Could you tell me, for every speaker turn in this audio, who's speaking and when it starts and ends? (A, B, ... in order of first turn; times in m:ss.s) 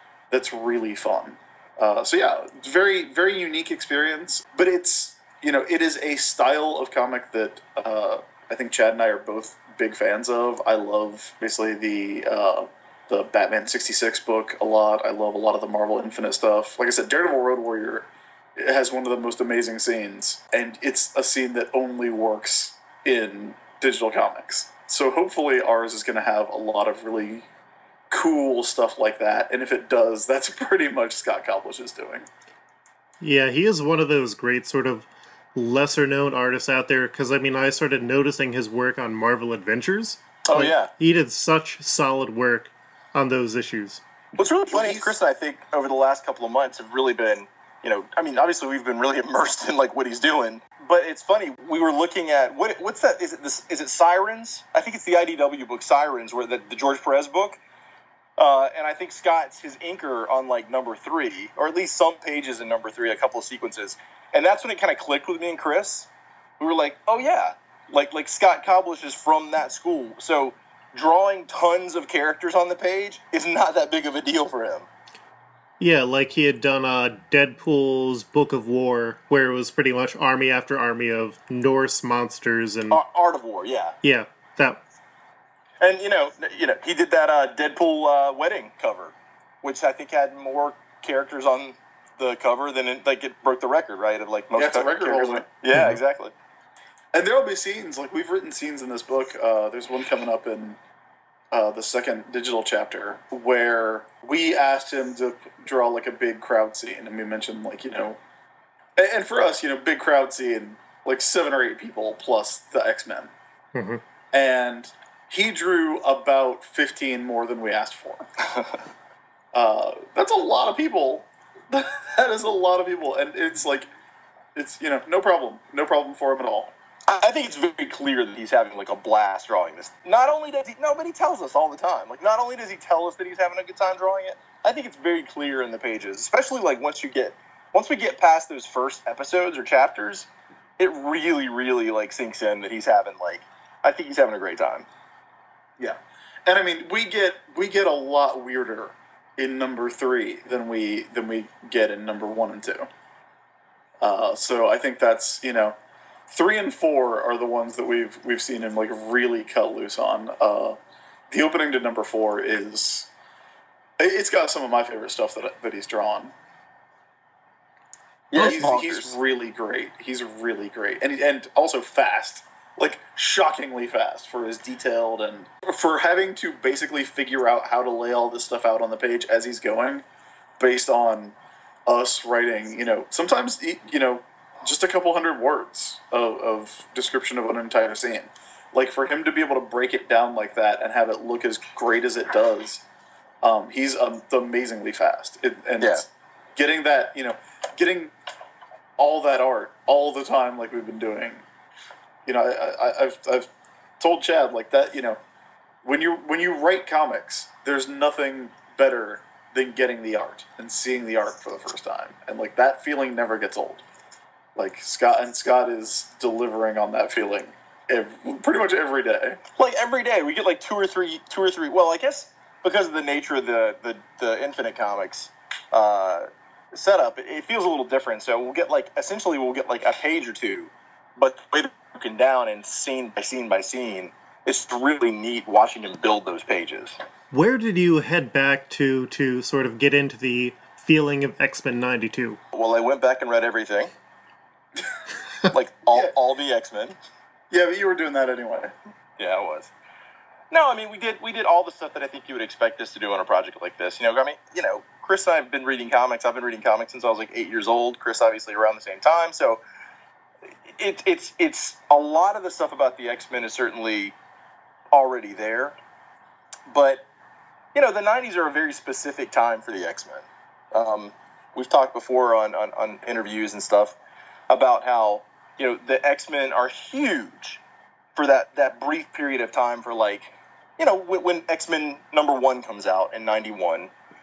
0:00.3-0:27.5 A
0:28.1-0:32.3 A
0:33.2-0:44.0 B
0:40.5-0:40.9 C
0:44.4-0:57.6 C
0:44.7-0:45.2 A
0:58.4-1:14.9 C
1:15.8-1:23.0 B
1:22.9-1:24.0 C
1:24.0-1:24.8 B
1:25.8-1:36.3 C
1:34.5-1:35.5 A
1:35.7-1:36.0 B
1:37.1-1:40.8 A
1:41.5-1:48.2 A
1:49.0-1:53.3 A
1:53.7-1:54.0 B
1:54.3-1:58.3 A
1:59.5-2:03.9 A
2:04.6-2:06.7 A
2:07.1-2:20.3 C
2:20.8-2:24.9 C
2:25.8-2:32.9 A
2:34.0-2:35.8 A
2:36.3-2:40.8 A
2:41.3-2:43.1 A
2:44.0-2:46.3 A
2:48.3-2:49.2 C
2:48.4-3:00.0 A
2:48.4-2:48.7 B
3:00.6-3:12.8 A
3:13.4-3:18.1 A
3:19.0-3:21.4 A
3:22.3-3:25.2 A
3:25.8-3:33.8 A
3:34.6-3:39.4 A
3:39.6-3:57.0 C
3:57.3-4:02.4 B
4:02.5-4:03.9 C
4:05.5-4:07.0 C
4:07.5-4:08.7 A
4:09.2-4:09.7 C
4:10.5-4:19.6 C
4:20.7-4:24.2 C
4:24.9-4:25.8 C
4:26.7-4:27.1 C
4:27.8-4:34.0 C
4:34.5-4:37.6 C
4:38.2-4:43.9 C